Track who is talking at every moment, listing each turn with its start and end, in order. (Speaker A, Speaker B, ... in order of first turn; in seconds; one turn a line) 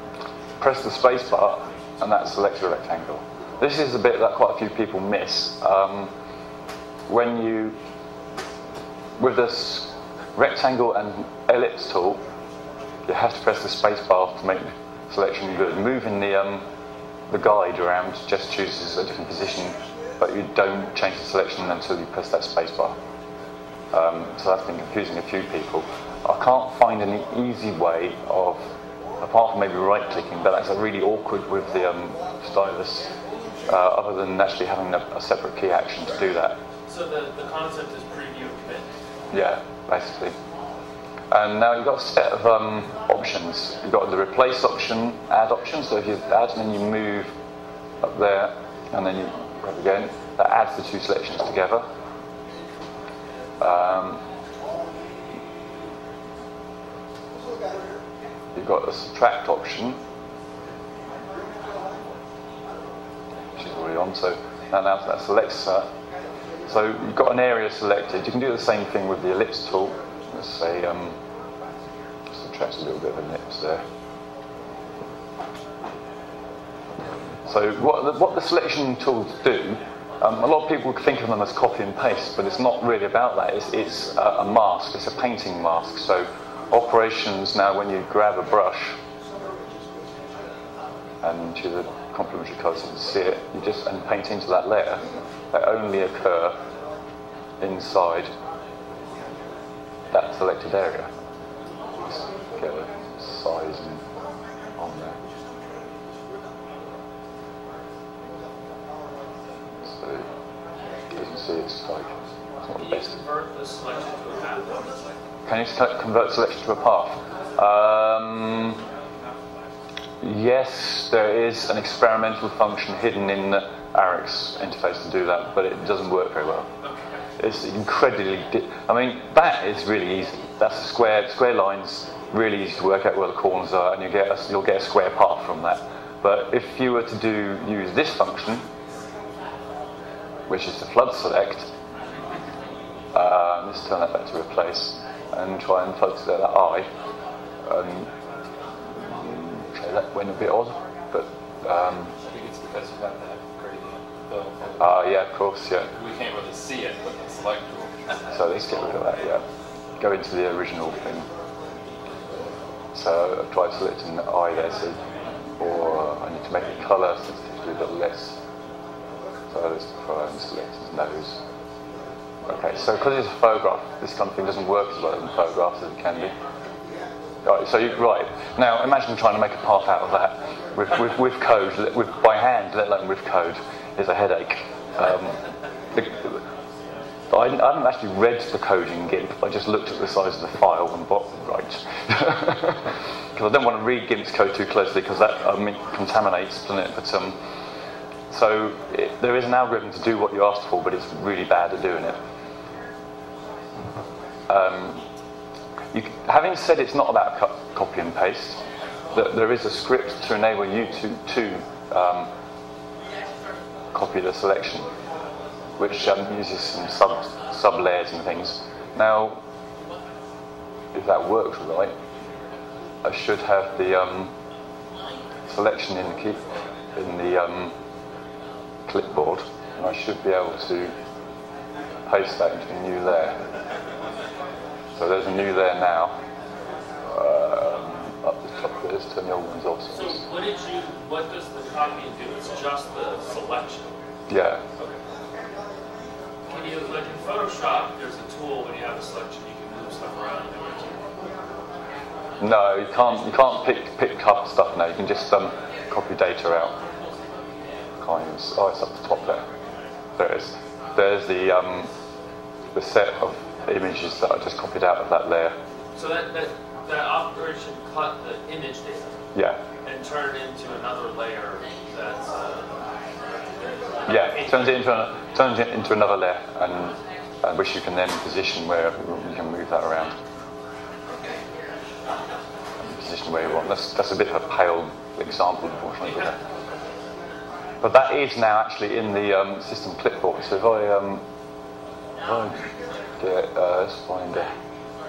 Speaker A: 0.6-6.1
Speaker A: 7.1-7.7
Speaker A: 9.2-12.2
Speaker A: 13.1-16.6
Speaker A: 17.3-22.9
Speaker A: 23.9-28.6
Speaker A: 29.2-33.1
Speaker A: 33.7-36.5
Speaker B: 36.9-38.9
Speaker A: 39.3-40.3
Speaker A: 41.3-47.3
Speaker A: 48.0-51.8
Speaker A: 53.6-54.2
Speaker A: 58.5-60.0
Speaker A: 63.6-65.9
Speaker A: 66.7-71.2
Speaker A: 72.3-73.8
Speaker A: 77.5-89.0
Speaker A: 91.2-96.6
Speaker A: 97.6-98.3
Speaker A: 100.1-101.1
Speaker A: 102.0-104.0
Speaker A: 104.8-105.2
Speaker A: 109.8-110.3
Speaker A: 111.1-113.1
Speaker B: 112.8-114.9
Speaker A: 115.5-118.8
Speaker A: 120.2-126.7
Speaker A: 127.4-138.6
Speaker A: 140.5-141.7
Speaker A: 143.1-146.9
Speaker A: 147.6-148.1
Speaker A: 149.0-152.1
Speaker C: 152.3-154.9
Speaker A: 154.8-155.9
Speaker C: 155.9-158.8
Speaker A: 158.3-159.4
Speaker A: 160.0-161.3
Speaker A: 162.9-165.0
Speaker A: 165.6-168.4
Speaker A: 169.5-171.4
Speaker A: 172.4-176.3
Speaker A: 177.4-185.4
Speaker A: 185.9-186.4
Speaker A: 187.3-197.3
Speaker A: 198.3-202.2
Speaker A: 204.5-205.0
Speaker A: 205.9-208.6
Speaker A: 209.1-212.3
Speaker A: 213.9-214.9
Speaker A: 215.8-219.4
Speaker A: 220.9-221.9
Speaker A: 223.0-224.3
Speaker A: 225.5-227.7
Speaker A: 228.9-230.9
Speaker A: 232.1-233.4
Speaker A: 235.0-236.2
Speaker A: 237.1-240.2
Speaker B: 239.9-243.8
Speaker A: 244.3-244.6
Speaker B: 246.5-251.1
Speaker A: 252.4-256.7
Speaker A: 258.0-259.4
Speaker A: 260.2-261.9
Speaker A: 262.7-265.5
Speaker B: 265.9-269.1
Speaker A: 269.3-269.6
Speaker B: 269.8-274.9
Speaker A: 274.1-280.1
Speaker A: 282.8-286.4
Speaker A: 287.8-291.2
Speaker A: 292.2-294.5